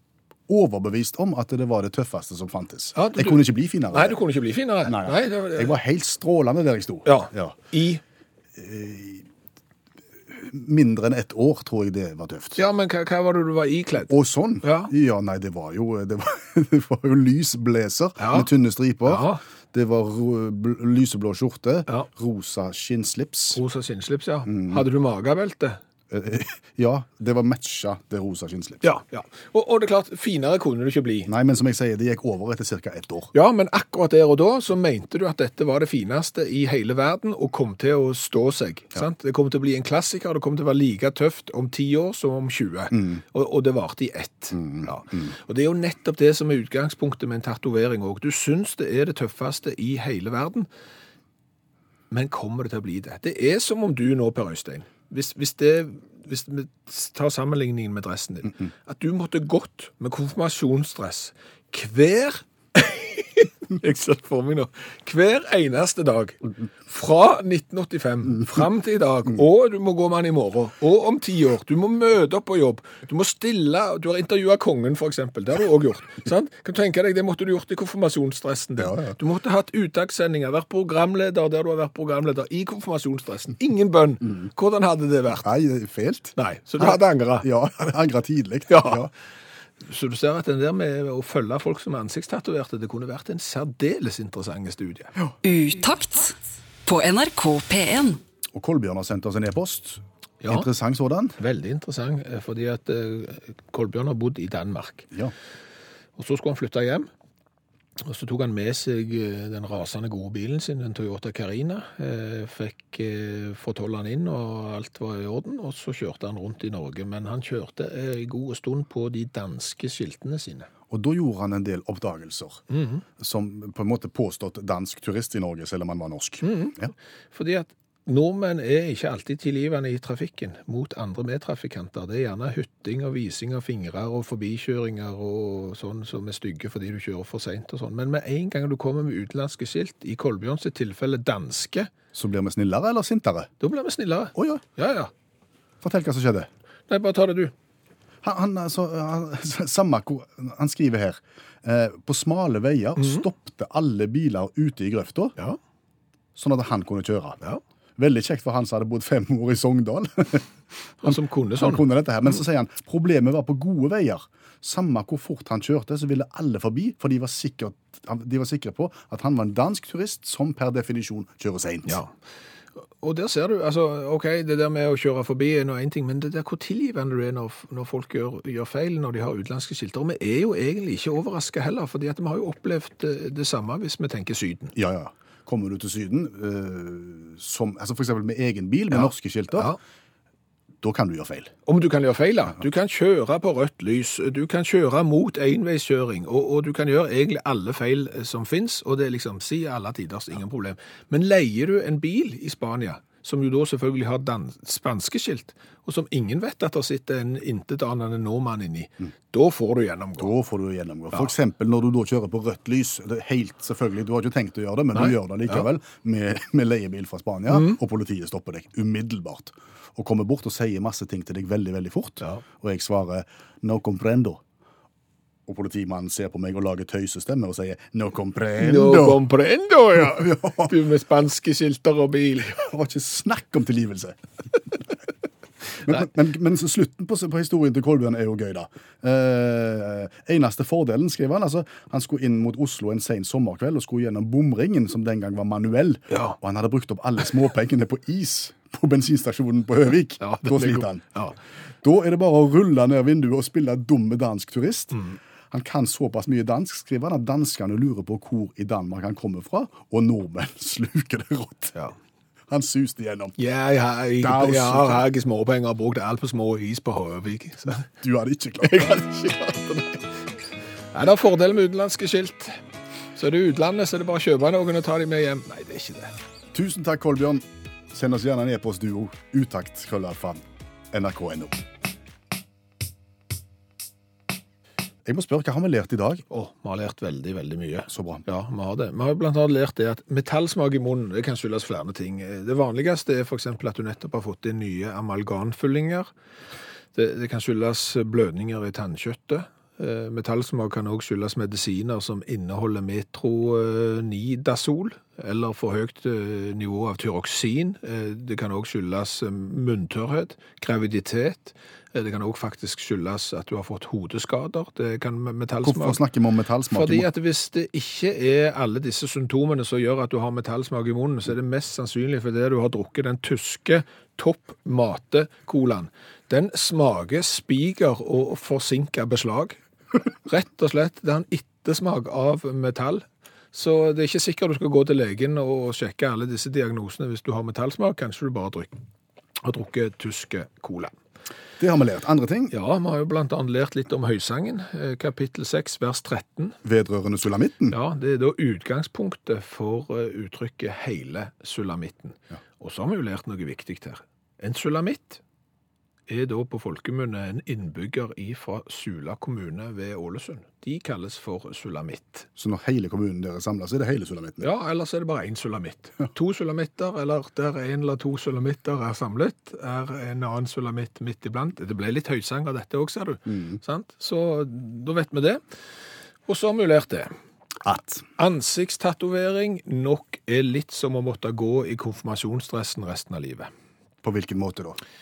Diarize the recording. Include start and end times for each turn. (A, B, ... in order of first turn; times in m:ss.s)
0:00.5-0:04.2 A
0:03.0-0:05.8 B
0:04.8-0:07.6 A
0:07.1-0:08.0 B
0:08.6-0:09.3 A
0:10.3-0:12.6 A
0:12.6-0:14.9 B
0:14.1-0:23.6 A
0:18.2-0:18.5 B
0:19.1-0:19.4 B
0:23.5-0:25.8 B
0:24.5-0:24.8 A
0:26.1-0:28.9 A
0:28.8-0:31.3 B
0:31.3-0:33.3 A
0:33.3-0:50.7 B
0:42.9-0:43.2 A
0:44.5-0:45.3 A
0:52.1-1:25.5 B
1:18.8-1:19.2 A
1:25.4-1:29.1 A
1:26.4-1:27.5 B
1:28.7-1:29.1 B
1:29.8-1:35.1 B
1:35.4-1:38.2 C
1:38.5-1:41.4 A
1:40.4-1:40.7 B
1:41.4-1:45.1 B
1:46.2-1:47.1 B
1:48.0-2:00.7 B
2:00.9-2:02.6 A
2:02.7-2:03.0 B
2:03.2-2:06.9 A
2:06.4-2:21.9 B
2:22.1-2:23.5 A
2:23.6-2:25.1 B
2:24.4-2:24.6 A
2:25.8-2:26.5 A
2:26.9-2:27.5 B
2:28.2-2:35.4 A
2:33.0-2:33.2 B
2:36.4-2:37.4 A
2:38.0-2:40.5 A
2:41.0-2:41.8 B
2:41.0-2:52.0 A
2:51.9-2:52.1 B
2:53.0-3:04.7 B
3:04.8-3:09.7 A
3:08.9-3:09.8 B
3:10.8-3:11.5 A
3:11.7-3:30.3 B
3:30.2-3:44.4 A
3:35.0-3:35.6 B
3:37.5-3:37.8 B
3:45.5-3:49.2 A
3:48.6-3:52.7 B
3:50.0-3:50.8 A
3:52.7-3:54.8 A
3:55.8-4:11.1 A
4:06.1-4:06.4 B
4:10.2-4:11.4 B
4:11.8-4:15.0 A
4:15.5-4:21.8 A
4:22.5-4:23.4 A
4:23.4-4:27.9 B
4:24.2-4:25.1 A
4:27.9-4:28.9 A
4:28.6-4:30.2 B
4:30.9-4:32.6 B
4:33.2-4:36.1 B
4:36.5-4:41.7 A
4:45.0-4:46.2 A
4:46.3-4:56.1 B
4:47.9-4:48.2 A
4:57.0-5:16.0 B
5:15.6-5:17.1 A
5:16.7-5:29.6 B
5:30.2-5:38.7 B
5:39.4-5:41.0 B
5:41.6-5:42.5 A
5:42.5-5:46.6 B
5:46.6-5:47.8 A
5:47.7-5:55.2 B
5:56.1-6:02.3 B
6:02.4-6:04.5 A
6:04.4-6:15.4 B
6:13.3-6:13.6 A
6:16.3-6:17.1 B
6:17.6-6:18.0 A
6:18.2-6:23.5 B
6:24.0-6:24.8 A